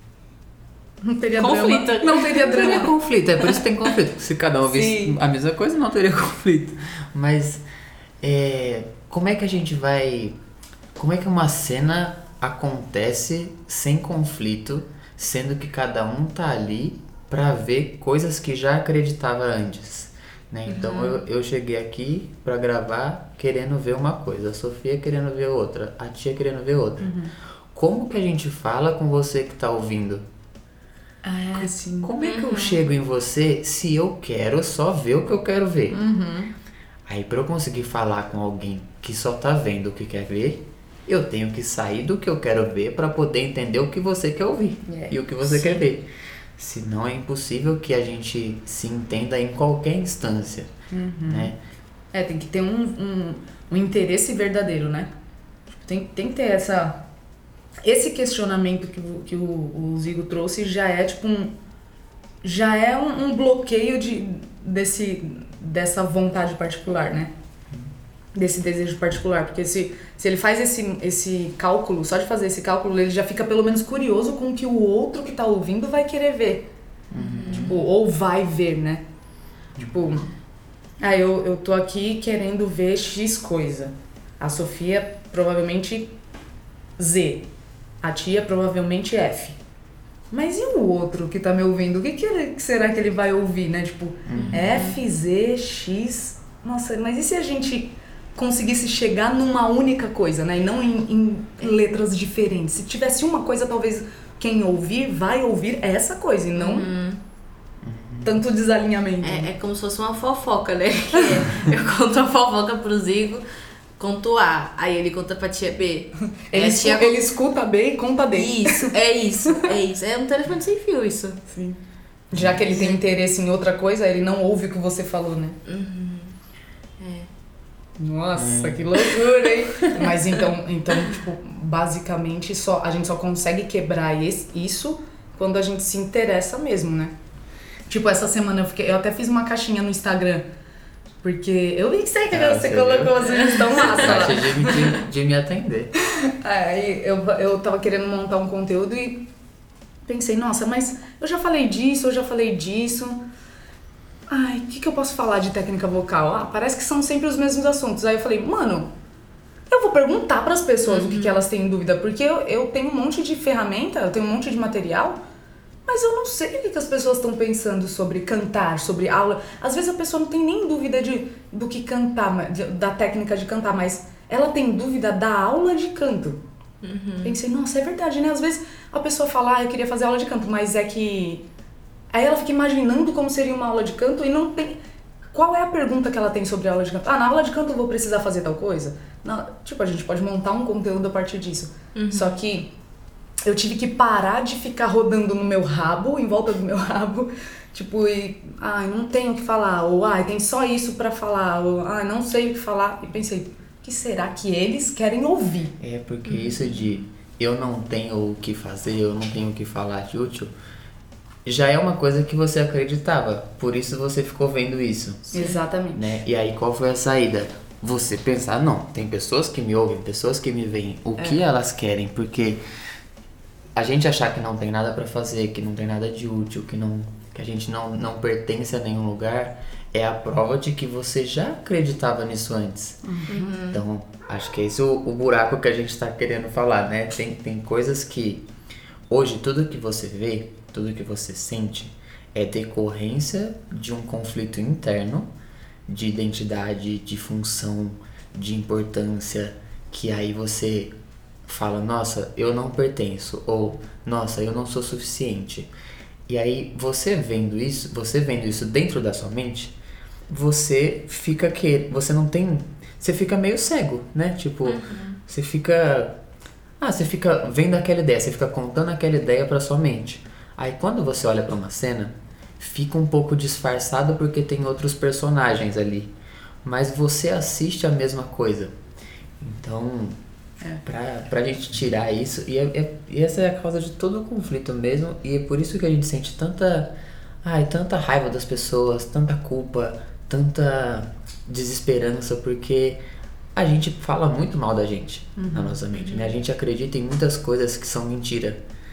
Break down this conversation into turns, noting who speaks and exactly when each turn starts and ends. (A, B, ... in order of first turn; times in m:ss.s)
0:01.0-0:02.9 A
0:01.4-0:02.9 B
0:02.3-0:07.6 C
0:04.7-0:05.1 B
0:08.2-0:10.3 C
0:11.0-0:27.1 C
0:20.7-0:21.2 B
0:27.0-0:27.3 A
0:27.7-0:30.2 C
0:31.2-0:32.1 A
0:31.6-0:36.0 C
0:32.2-0:32.8 B
0:35.9-0:36.5 A
0:37.1-0:50.7 C
0:44.9-0:45.2 A
0:45.4-0:45.8 B
0:50.9-0:51.5 A
0:51.2-0:51.6 C
0:52.1-0:55.1 A
0:55.7-0:57.0 A
0:57.8-1:01.5 A
1:02.4-1:07.3 A
1:08.3-1:16.7 A
1:17.1-1:17.8 C
1:17.2-1:17.8 B
1:17.4-1:19.0 A
1:19.8-1:20.3 A
1:21.0-1:26.1 A
1:27.0-1:27.5 A
1:28.0-1:29.6 A
1:30.3-1:46.9 A
1:34.3-1:34.8 C
1:34.3-1:34.9 B
1:46.6-1:47.2 B
1:47.8-1:48.4 C
1:48.2-1:49.5 A
1:49.2-1:53.4 B
1:51.2-1:51.6 A
1:54.0-1:57.2 B
1:56.5-1:58.9 A
1:58.3-2:01.4 B
2:01.5-2:01.8 A
2:02.3-2:05.6 A
2:02.3-2:02.6 C
2:02.7-2:03.0 B
2:05.6-2:06.3 B
2:07.0-2:07.3 B
2:08.0-2:17.1 A
2:08.4-2:09.0 C
2:17.9-2:20.4 A
2:21.2-2:24.9 A
2:22.3-2:25.9 C
2:23.3-2:24.1 B
2:26.3-2:29.2 A
2:30.0-2:33.2 A
2:34.3-2:38.9 A
2:39.7-2:45.2 A
2:40.8-2:41.4 B
2:45.8-2:56.4 A
2:56.8-2:57.4 B
2:57.2-3:01.4 A
3:02.1-3:04.8 A
3:05.3-3:12.7 A
3:11.9-3:12.4 B
3:13.4-3:25.7 A
3:25.8-3:30.5 C
3:26.2-3:27.0 B
3:31.4-3:35.3 C
3:35.3-3:36.1 A
3:35.9-3:42.6 C
3:43.8-3:53.0 C
3:53.0-3:53.6 A
3:53.3-3:53.8 B
3:53.7-3:58.4 C
3:59.1-4:05.3 C
4:05.9-4:10.9 C
4:11.4-4:15.7 C
4:16.3-4:19.7 C
4:20.3-4:26.2 C
4:24.6-4:25.2 B
4:26.8-4:36.1 C
4:36.6-4:38.7 C
4:39.4-4:40.2 C
4:40.8-4:46.9 C
4:47.4-4:53.0 C
4:53.5-4:58.6 C
4:55.4-4:55.8 A
4:55.9-4:56.3 B